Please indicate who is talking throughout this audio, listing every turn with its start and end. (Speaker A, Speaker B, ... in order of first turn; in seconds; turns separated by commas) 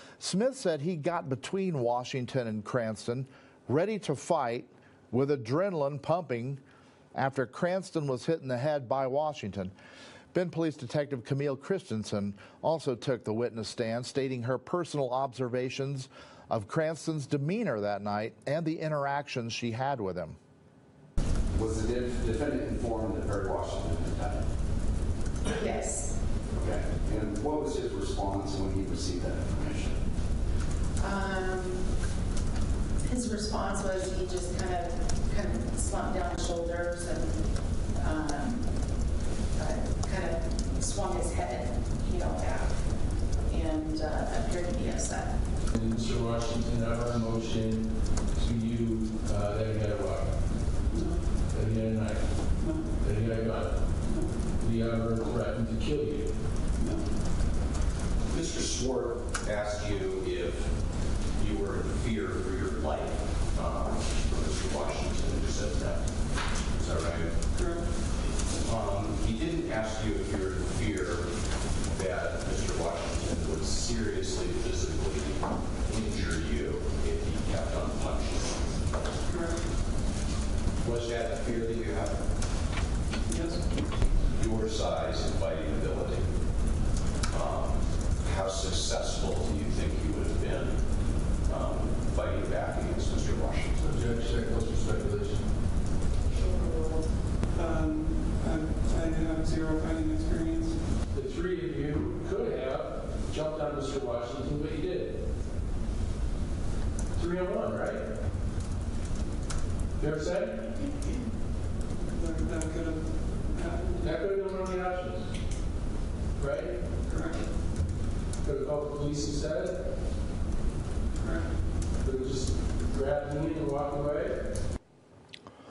Speaker A: 0.2-6.6, Speaker A: 7.1-9.7, Speaker A: 10.3-20.4, Speaker B: 21.5-24.5, Speaker C: 25.4-26.2, Speaker B: 26.5-30.0, Speaker C: 31.0-32.0, Speaker C: 33.0-45.4, Speaker D: 45.7-50.6, Speaker E: 50.9-51.2, Speaker D: 51.5-56.3, Speaker E: 52.6-52.9, Speaker E: 54.1-54.3, Speaker E: 56.8-57.0, Speaker F: 58.3-67.5, Speaker E: 67.5-67.9, Speaker F: 68.6-78.8, Speaker E: 79.3-79.7, Speaker F: 80.8-82.2, Speaker E: 83.2-83.8, Speaker F: 84.3-86.4, Speaker F: 87.3-93.8, Speaker D: 93.8-95.5, Speaker C: 96.4-96.9, Speaker E: 97.5-100.8, Speaker D: 101.1-105.2, Speaker D: 107.1-108.1, Speaker D: 110.0-110.9, Speaker E: 112.1-114.0, Speaker D: 114.0-115.3, Speaker D: 116.4-116.8, Speaker E: 117.0-117.5, Speaker D: 118.4-119.8, Speaker E: 121.2-121.6, Speaker D: 121.9-124.4